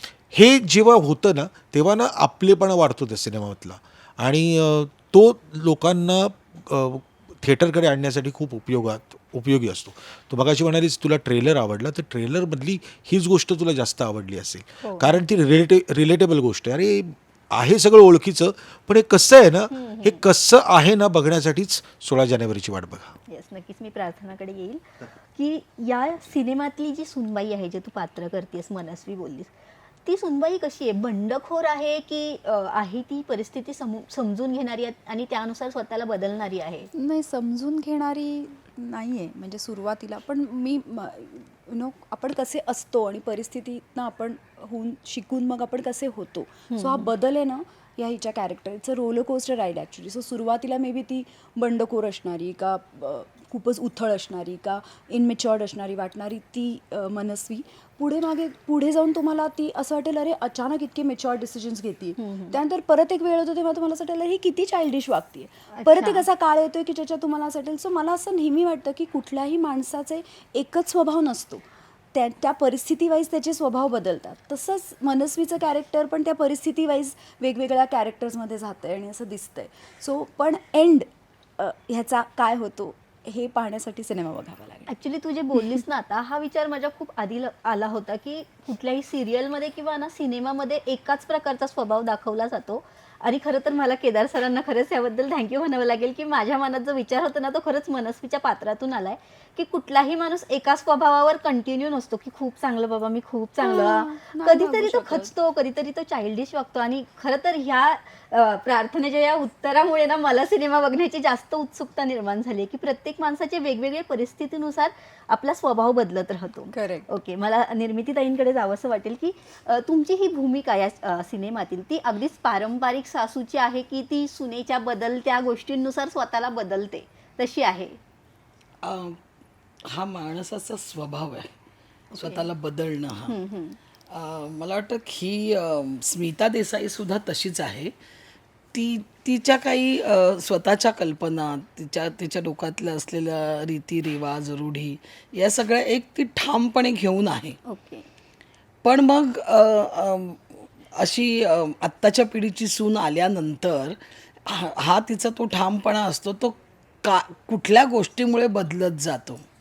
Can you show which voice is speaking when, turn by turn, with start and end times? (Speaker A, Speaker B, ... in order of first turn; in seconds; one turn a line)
Speaker A: 0.3-23.1
Speaker B: 14.8-15.2
Speaker B: 19.7-20.2
Speaker B: 23.3-29.5
Speaker B: 30.0-36.9
Speaker C: 36.9-81.1
Speaker B: 46.7-47.1
Speaker B: 62.2-62.6
Speaker B: 65.7-66.2
Speaker C: 81.6-84.9
Speaker B: 84.9-128.0
Speaker C: 103.6-105.3
Speaker C: 116.7-117.1
Speaker D: 128.8-129.2
Speaker D: 129.9-131.5
Speaker B: 132.1-132.4
Speaker D: 132.1-133.4
Speaker B: 133.3-133.8
Speaker D: 134.1-137.9
Speaker D: 138.7-147.6
Speaker B: 147.7-148.1
Speaker D: 148.8-159.4